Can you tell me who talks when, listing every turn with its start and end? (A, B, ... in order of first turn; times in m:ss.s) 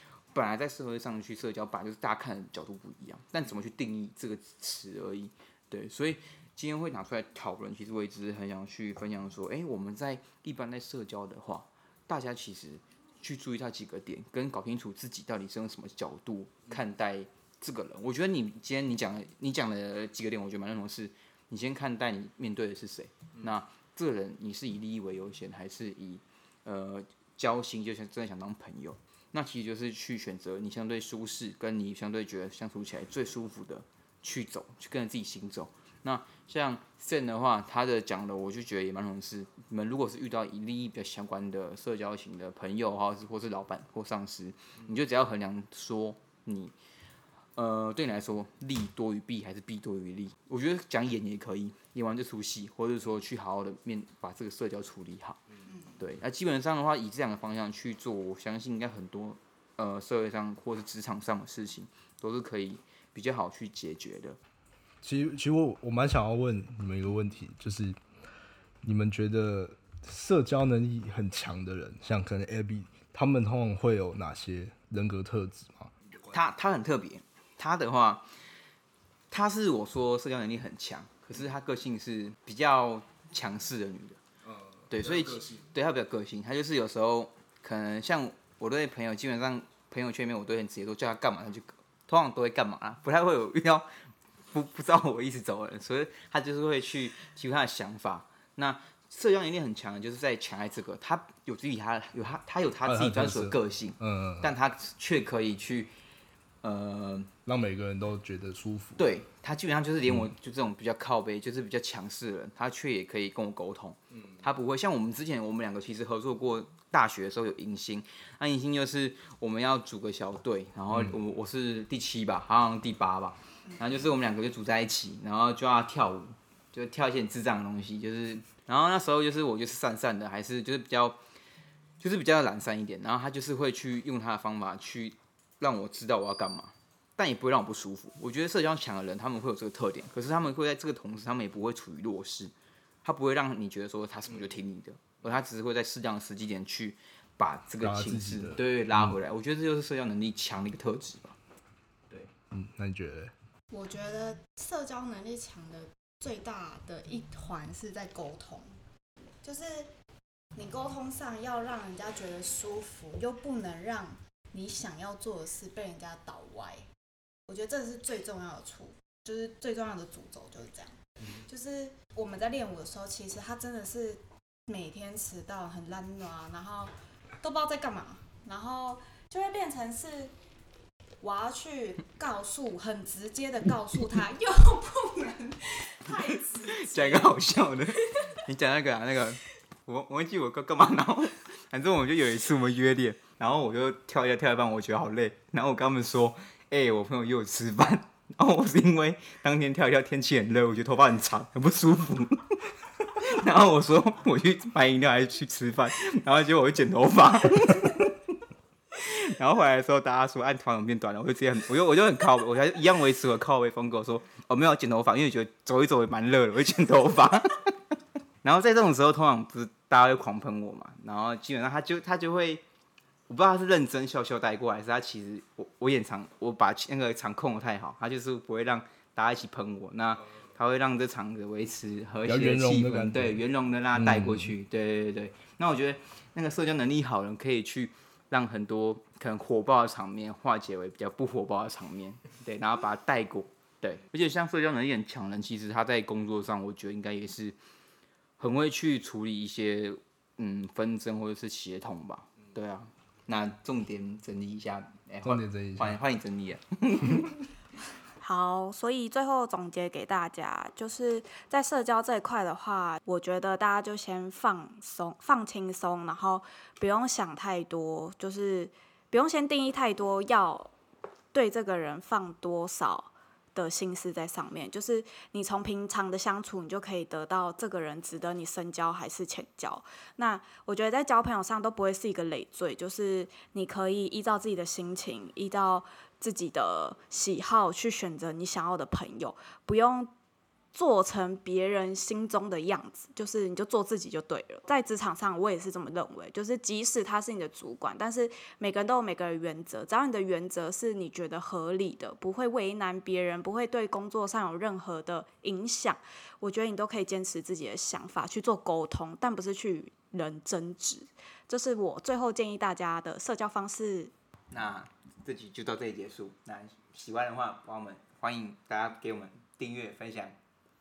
0:00.3-0:46.7 A
0:47.6-0:55.4 A
0:56.0-1:04.4 A
1:05.0-1:08.0 B
1:08.8-1:16.1 B
1:16.3-1:18.2 A
1:19.3-1:24.2 A
1:24.9-1:33.9 A
1:34.5-1:45.9 A
1:42.8-1:44.5 B
1:46.6-1:47.3 A
1:47.4-1:49.0 B
1:49.0-2:11.2 A
2:12.0-2:22.5 A
2:23.0-2:31.4 A
2:27.8-2:29.1 B
2:32.4-2:33.3 B
2:33.7-2:38.7 C
2:39.4-2:39.9 C
2:40.6-2:46.8 C
2:47.5-3:00.3 C
3:01.2-3:07.4 C
3:06.7-3:22.6 A
3:23.2-3:28.2 A
3:29.0-3:37.7 A
3:38.4-3:42.6 A
3:43.3-4:07.6 A
3:52.3-3:53.4 B
3:53.9-3:54.5 B
4:08.4-4:17.4 A
4:15.2-4:16.0 B
4:18.2-4:30.7 C
4:31.3-4:50.1 C
4:50.7-5:14.1 C
5:14.5-5:20.4 A